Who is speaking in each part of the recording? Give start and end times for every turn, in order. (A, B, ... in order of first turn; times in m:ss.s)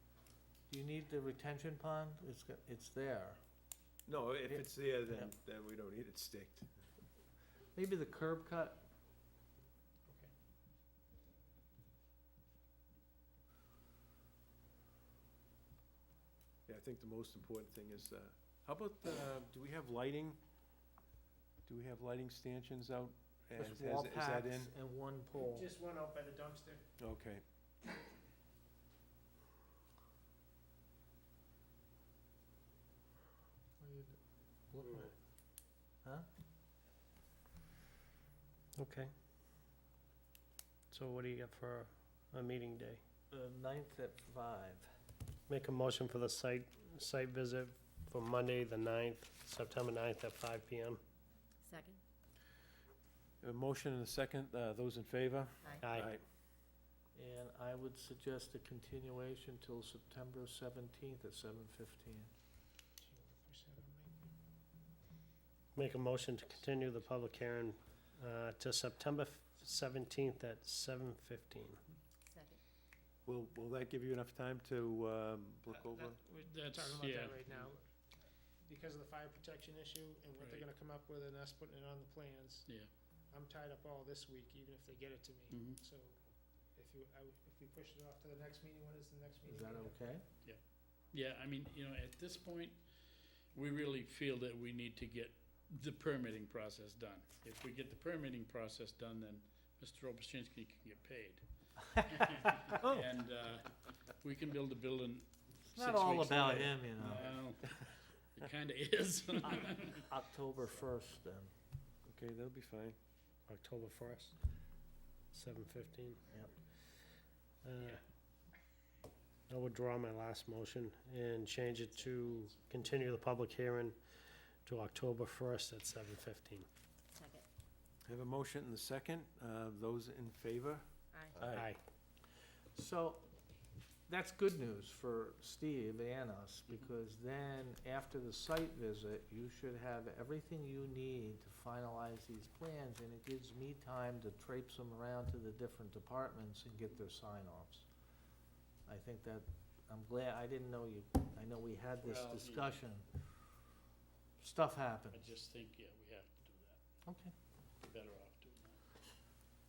0:00.7-0:03.4 A
0:04.1-0:06.7 B
0:04.5-0:05.3 A
0:07.8-0:08.8 A
0:16.7-0:20.4 B
0:21.7-0:24.7 B
0:23.6-0:25.7 A
0:25.4-0:26.8 C
0:27.0-0:27.4 B
0:33.8-0:35.1 A
0:34.8-0:35.1 D
0:38.8-0:39.1 D
0:40.9-0:43.0 D
0:43.3-0:44.9 A
0:45.5-0:51.0 D
0:51.6-0:52.0 E
0:53.4-0:56.2 B
0:55.6-0:55.9 E
0:55.8-0:56.1 D
0:57.2-1:02.3 A
1:03.0-1:04.4 C
1:05.8-1:11.8 D
1:12.3-1:12.6 E
1:13.3-1:16.2 B
1:15.7-1:17.9 C
1:16.4-1:17.7 F
1:18.6-1:30.2 C
1:20.4-1:20.7 F
1:22.6-1:22.9 F
1:25.5-1:25.8 F
1:29.5-1:30.2 A
1:30.4-1:50.1 F
1:45.6-1:47.3 A
1:49.4-1:51.5 A
1:52.1-1:53.0 B
1:53.5-1:54.4 D
1:55.3-1:56.2 D
1:57.6-1:58.0 D
1:59.5-2:04.0 D
2:02.0-2:02.5 F
2:04.6-2:06.7 D
2:07.1-2:07.5 E
2:08.1-2:10.8 B
2:11.1-2:11.5 E
2:11.4-2:11.7 B
2:11.5-2:11.8 D
2:12.8-2:13.3 A
2:14.1-2:27.9 A
2:28.9-2:33.0 A
2:32.0-2:32.8 F
2:34.4-2:35.3 A
2:35.1-2:36.8 F
2:37.0-2:37.3 A
2:37.8-2:38.8 F